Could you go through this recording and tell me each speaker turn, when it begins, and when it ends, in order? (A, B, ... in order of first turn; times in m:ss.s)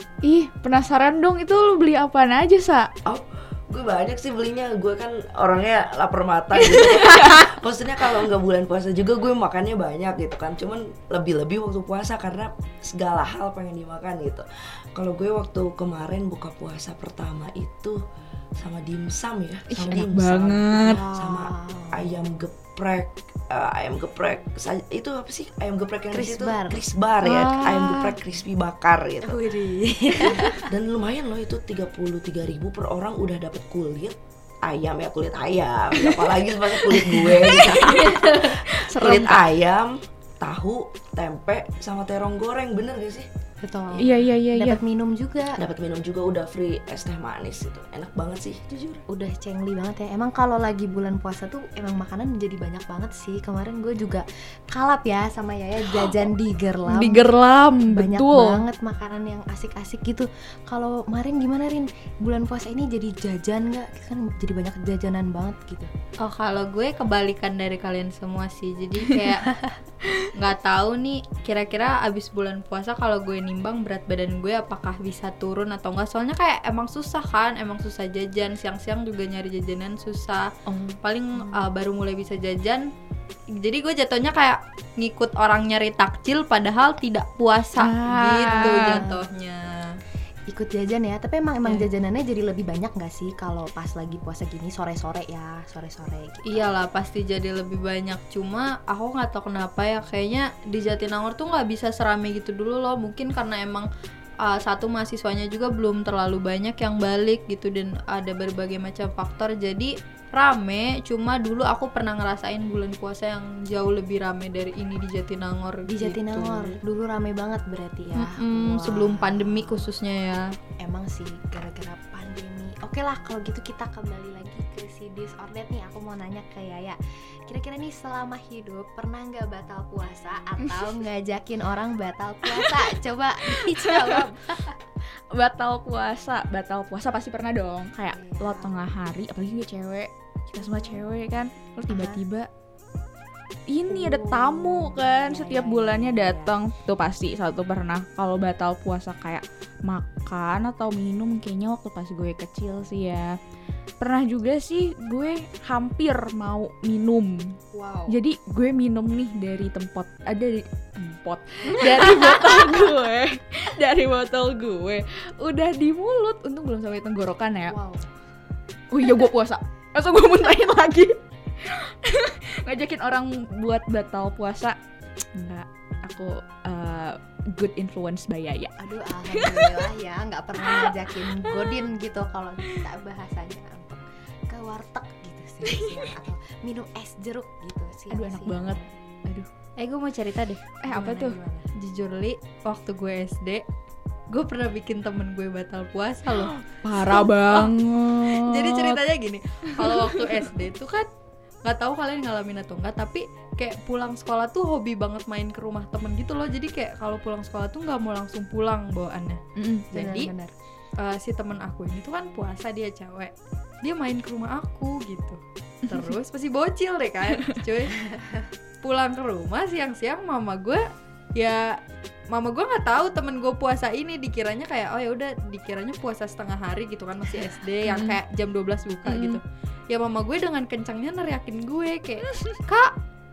0:00.2-0:02.9 A
0:03.1-0:18.0 B
0:06.7-0:07.5 A
0:18.6-0:43.3 B
0:19.7-0:21.0 A
0:20.8-0:22.2 C
0:26.1-0:26.8 C
0:27.2-0:28.1 A
0:29.2-0:30.7 C
0:38.8-0:39.4 A
0:43.6-0:45.6 C
0:44.0-0:44.8 A
0:45.6-0:49.0 B
0:49.1-0:57.3 C
0:56.9-0:58.6 A
0:57.9-1:05.9 C
1:06.2-1:09.5 D
1:10.3-1:20.5 D
1:21.0-1:22.9 D
1:23.6-1:30.0 D
1:27.8-1:29.0 A
1:28.5-1:29.2 C
1:30.5-1:36.7 C
1:36.5-1:43.9 D
1:44.4-1:56.8 D
1:55.9-1:59.9 C
1:58.1-2:00.5 D
2:00.8-2:14.8 C
2:15.3-2:22.5 A
2:18.1-2:18.9 C
2:20.6-2:21.0 C
2:21.9-2:22.2 C
2:23.7-2:33.4 A
2:23.9-2:26.6 C
2:34.0-2:37.6 A
2:37.7-2:38.2 C
2:38.1-2:47.8 A
2:47.7-2:48.1 C
2:48.9-2:54.8 A
2:55.3-2:58.7 A
2:58.8-3:08.9 C
2:59.3-2:59.9 A
3:00.7-3:01.7 A
3:08.1-3:09.5 A
3:09.8-3:13.6 D
3:10.9-3:11.7 C
3:14.3-3:17.7 D
3:16.3-3:19.0 A
3:18.2-3:21.1 D
3:19.8-3:20.3 A
3:21.6-3:29.4 D
3:29.6-3:29.8 A
3:29.9-3:30.5 C
3:29.9-3:30.3 D
3:31.0-3:38.1 D
3:38.8-3:40.8 D
3:41.4-3:41.8 D
3:42.3-3:52.9 D
3:47.8-3:48.2 A
3:49.0-3:49.4 A